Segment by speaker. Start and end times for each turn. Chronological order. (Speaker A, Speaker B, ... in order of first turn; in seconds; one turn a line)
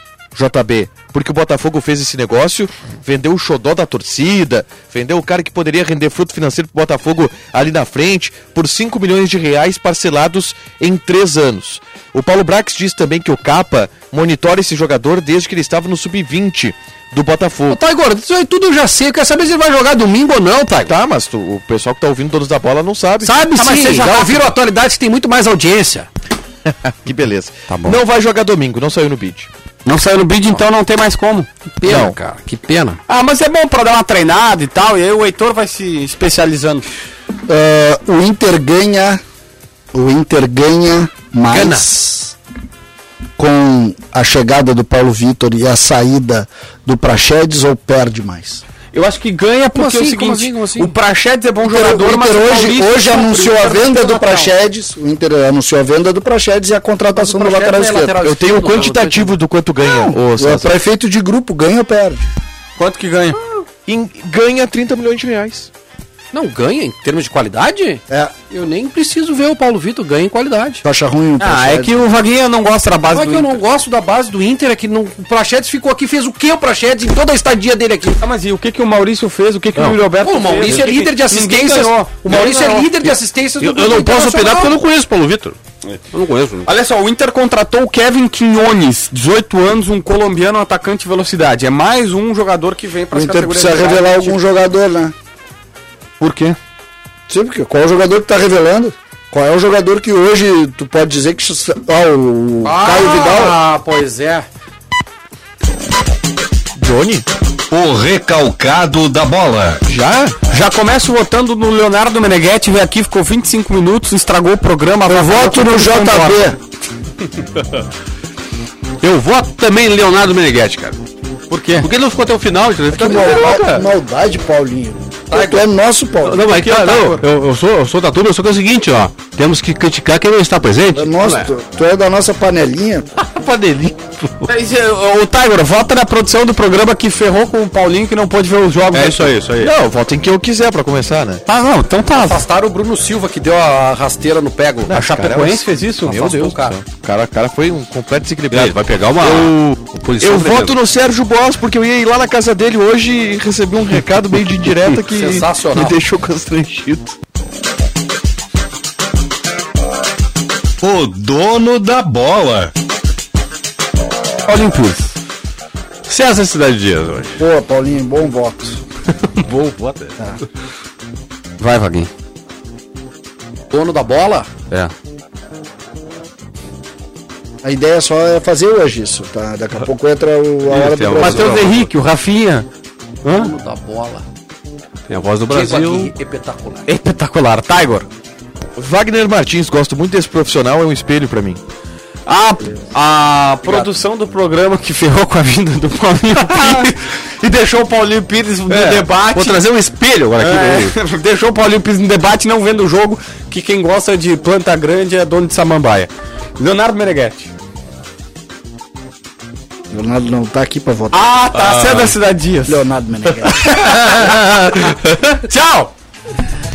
Speaker A: 0.3-17.8
Speaker B: 17.7-20.9
Speaker A: 20.9-23.4
Speaker B: 23.2-26.1
Speaker C: 23.5-24.5
Speaker A: 26.8-29.5
Speaker C: 27.7-28.0
Speaker C: 29.8-31.5
Speaker B: 31.8-33.0
Speaker C: 33.1-36.9
Speaker D: 37.5-39.2
Speaker D: 39.9-42.3
Speaker B: 41.5-41.9
Speaker D: 43.4-48.6
Speaker C: 48.9-54.5
Speaker B: 49.7-50.9
Speaker D: 51.6-58.2
Speaker B: 57.1-59.4
Speaker A: 58.2-60.7
Speaker D: 59.8-62.3
Speaker C: 62.8-63.4
Speaker A: 63.9-65.7
Speaker B: 66.3-70.8
Speaker D: 70.8-72.1
Speaker C: 71.4-73.6
Speaker B: 73.1-78.2
Speaker C: 78.2-82.9
Speaker E: 79.8-80.0
Speaker B: 80.2-84.8
Speaker E: 83.6-85.6
Speaker E: 86.1-86.7
Speaker C: 86.6-94.4
Speaker D: 93.1-95.1
Speaker C: 96.2-96.6
Speaker D: 97.3-103.6
Speaker B: 102.6-104.5
Speaker A: 106.8-107.3
Speaker F: 107.7-109.8
Speaker A: 109.8-110.3
Speaker C: 110.5-116.4
Speaker D: 115.0-116.6
Speaker E: 119.0-121.0
Speaker C: 121.5-121.9
Speaker E: 121.8-123.8
Speaker D: 122.9-126.4
Speaker C: 123.2-123.7
Speaker C: 125.3-125.6
Speaker E: 126.2-131.5
Speaker C: 126.4-127.2
Speaker D: 130.9-133.1
Speaker E: 133.2-134.5
Speaker C: 134.5-139.4
Speaker E: 138.9-139.7
Speaker A: 139.6-141.4
Speaker C: 141.4-142.4
Speaker B: 142.1-144.9
Speaker A: 144.9-157.2
Speaker C: 144.9-146.2
Speaker B: 146.1-146.8
Speaker E: 148.5-150.8
Speaker B: 155.0-156.0
Speaker F: 160.8-162.7
Speaker C: 164.5-165.1
Speaker E: 166.1-167.4
Speaker D: 167.4-168.8
Speaker E: 169.3-170.1
Speaker C: 171.6-172.1
Speaker B: 173.7-174.5
Speaker D: 177.6-181.6
Speaker E: 180.8-181.8
Speaker C: 181.1-182.7
Speaker C: 183.2-183.5
Speaker B: 183.3-184.2
Speaker E: 185.1-186.1
Speaker B: 185.5-186.9
Speaker C: 186.8-188.1
Speaker A: 188.8-191.6
Speaker C: 192.2-199.6
Speaker E: 198.7-200.9
Speaker C: 200.3-207.5
Speaker D: 209.9-211.3
Speaker C: 211.1-212.9
Speaker E: 211.5-212.1
Speaker D: 212.7-214.0
Speaker C: 213.4-214.7
Speaker E: 214.2-214.9
Speaker C: 215.3-215.9